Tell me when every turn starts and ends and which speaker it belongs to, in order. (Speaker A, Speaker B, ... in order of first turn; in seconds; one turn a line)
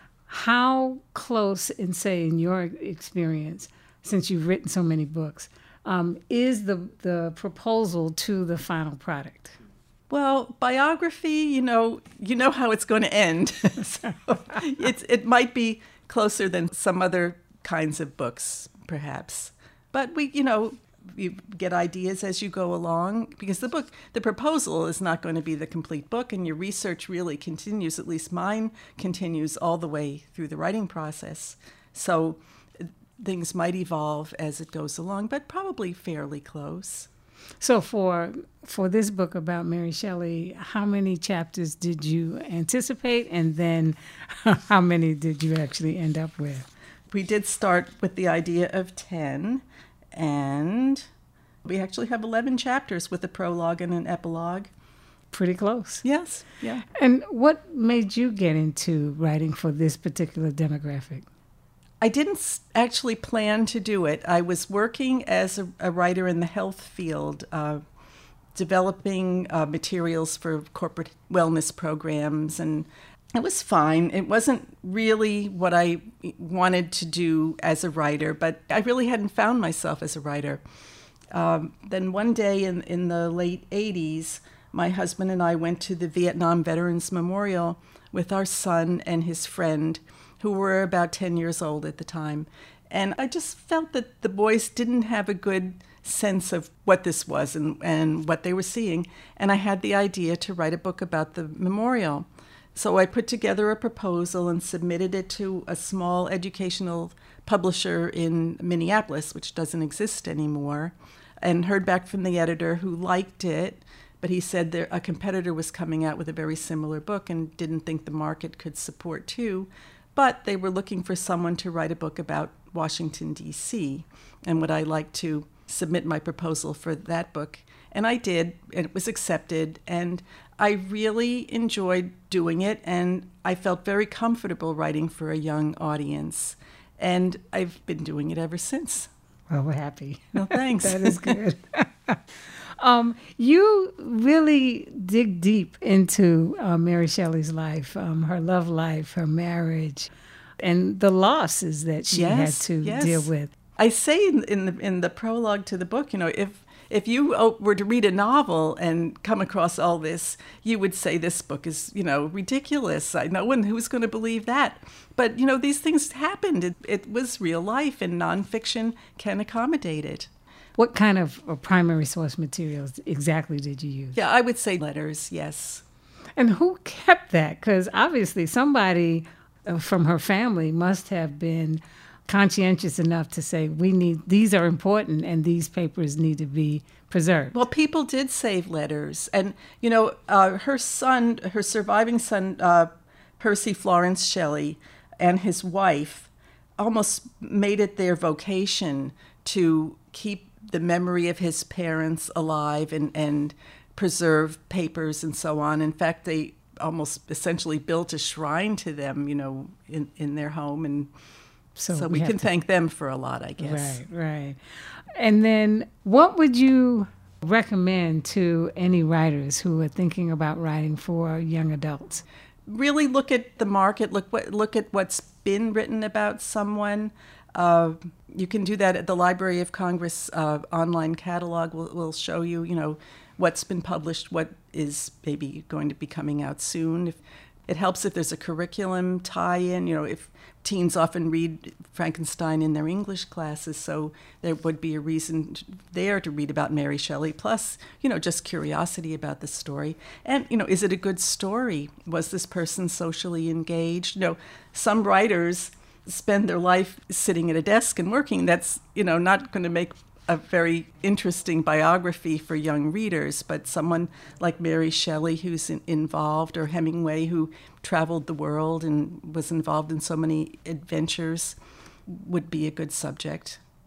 Speaker A: 0.3-9.6
Speaker B: 10.1-37.1
Speaker A: 37.6-46.7
Speaker B: 47.1-51.1
Speaker B: 51.6-54.7
Speaker A: 55.3-56.0
Speaker B: 56.0-56.8
Speaker A: 56.9-61.2
Speaker B: 62.0-67.8
Speaker B: 68.5-80.6
Speaker B: 81.3-139.1
Speaker A: 139.5-142.2
Speaker B: 140.3-141.4
Speaker A: 142.8-153.5
Speaker B: 152.1-170.3
Speaker A: 170.8-174.2
Speaker B: 174.1-175.8
Speaker A: 176.4-187.6
Speaker B: 187.5-211.1
Speaker A: 211.8-212.5
Speaker B: 211.9-214.0
Speaker A: 213.6-214.6
Speaker A: 215.1-222.2
Speaker B: 222.7-273.6